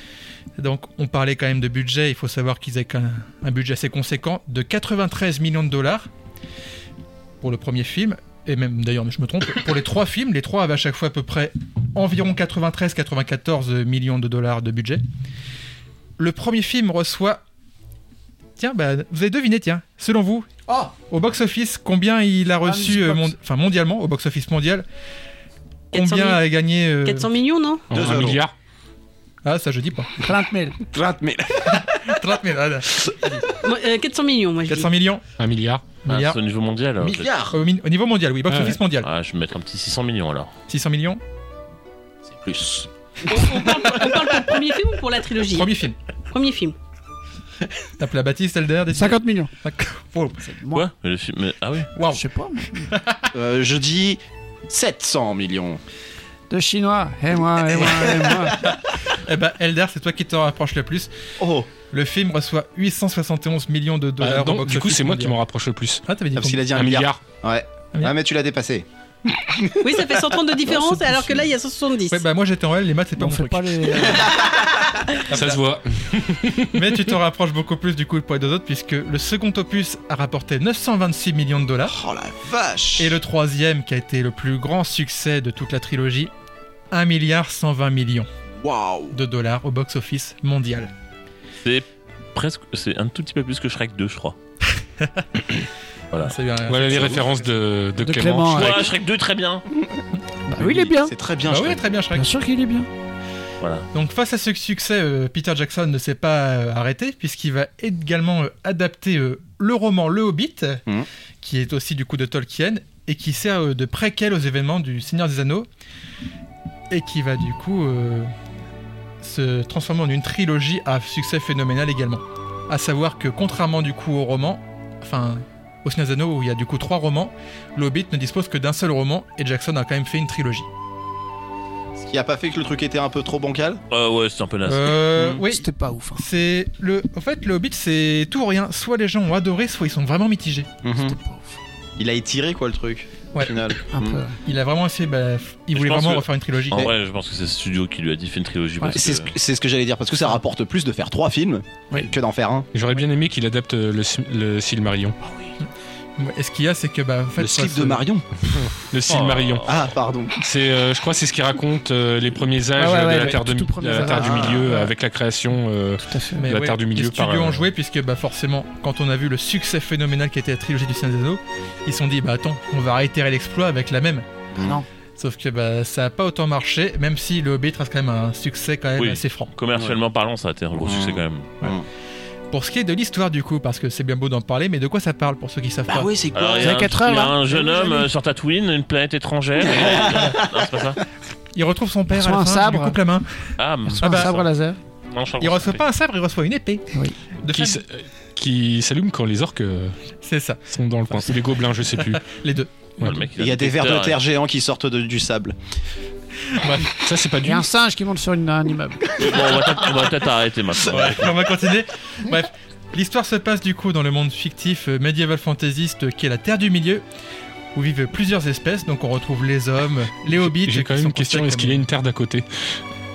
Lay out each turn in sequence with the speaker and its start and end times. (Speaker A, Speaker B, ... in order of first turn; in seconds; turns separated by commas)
Speaker A: 0.6-6.1, Speaker A: 7.4-15.0, Speaker A: 16.2-17.4, Speaker A: 18.6-24.9, Speaker B: 22.6-23.3, Speaker C: 25.9-26.4, Speaker A: 25.9-27.3, Speaker C: 27.0-27.9, Speaker D: 27.9-28.4, Speaker E: 27.9-28.5, Speaker A: 29.4-30.1, Speaker B: 30.2-30.8, Speaker D: 30.8-32.2, Speaker A: 31.7-33.4, Speaker C: 33.6-34.9, Speaker A: 34.7-35.2, Speaker E: 35.4-35.9, Speaker A: 36.0-36.4, Speaker F: 36.1-37.3, Speaker D: 37.0-37.5, Speaker A: 37.4-39.1, Speaker E: 38.5-38.8, Speaker F: 39.0-40.5, Speaker A: 40.7-41.2, Speaker D: 42.3-42.9, Speaker C: 43.3-45.7, Speaker A: 43.5-44.2, Speaker A: 45.4-46.0, Speaker C: 46.3-46.7, Speaker A: 48.0-50.5, Speaker B: 48.9-49.5, Speaker B: 50.4-50.9, Speaker F: 50.7-51.9, Speaker A: 51.9-52.2, Speaker B: 52.0-52.9, Speaker A: 52.9-53.2, Speaker D: 53.3-55.8, Speaker B: 56.5-58.6, Speaker D: 57.7-58.5, Speaker A: 58.6-61.1, Speaker D: 61.4-61.7, Speaker A: 61.8-65.4, Speaker E: 64.2-66.0, Speaker A: 66.0-66.6, Speaker D: 66.3-69.9, Speaker E: 66.7-67.2, Speaker C: 69.8-72.2, Speaker D: 70.7-71.2, Speaker A: 72.1-74.3, Speaker B: 73.2-74.4, Speaker A: 75.3-75.6, Speaker E: 75.3-77.1, Speaker A: 76.7-82.0, Speaker D: 81.9-83.2, Speaker A: 83.0-86.3, Speaker A: 86.9-88.3, Speaker D: 88.6-89.2, Speaker A: 89.1-90.9, Speaker F: 91.6-94.3, Speaker A: 95.0-95.2, Speaker A: 96.2-97.5, Speaker E: 96.7-98.8, Speaker B: 98.0-98.9, Speaker F: 98.5-99.6, Speaker B: 100.5-101.2, Speaker D: 100.6-101.8, Speaker A: 101.5-102.3, Speaker B: 102.1-102.9, Speaker F: 103.6-103.9, Speaker A: 103.9-110.8, Speaker A: 111.4-115.7, Speaker A: 116.9-118.3, Speaker A: 119.2-130.7, Speaker D: 132.0-133.8, Speaker F: 133.9-135.0, Speaker A: 134.6-140.7, Speaker D: 135.2-135.4, Speaker B: 135.4-136.2, Speaker D: 140.8-141.2, Speaker B: 140.9-141.6, Speaker D: 142.0-144.2, Speaker B: 143.9-144.4, Speaker A: 144.4-146.9, Speaker F: 145.8-149.3, Speaker D: 148.9-152.7, Speaker E: 152.7-155.2, Speaker A: 155.6-158.0, Speaker D: 157.4-158.2, Speaker E: 158.5-159.8, Speaker F: 159.1-159.8, Speaker D: 159.7-160.3, Speaker E: 160.4-167.6, Speaker B: 162.8-164.9, Speaker D: 164.1-164.6, Speaker B: 166.0-166.5, Speaker A: 166.3-174.3, Speaker D: 174.5-174.8, Speaker B: 174.6-174.9, Speaker A: 175.2-179.5, Speaker F: 179.0-181.5, Speaker D: 180.8-181.8, Speaker A: 182.5-186.1, Speaker D: 185.9-186.8, Speaker F: 186.3-191.0, Speaker B: 186.6-188.1, Speaker D: 189.7-190.8, Speaker A: 191.5-194.3, Speaker B: 192.1-193.0, Speaker F: 193.6-194.5, Speaker B: 193.8-194.8, Speaker F: 195.1-195.8, Speaker A: 195.4-196.8, Speaker A: 197.4-197.8, Speaker E: 197.4-200.0, Speaker A: 200.2-201.2, Speaker E: 200.7-202.2, Speaker A: 202.0-202.7, Speaker E: 203.0-203.2, Speaker F: 203.0-204.2, Speaker D: 203.4-205.6, Speaker A: 206.5-206.9, Speaker E: 207.0-207.7, Speaker B: 207.4-209.6, Speaker F: 209.2-211.3, Speaker A: 210.8-217.0, Speaker A: 217.7-221.8, Speaker E: 220.3-222.8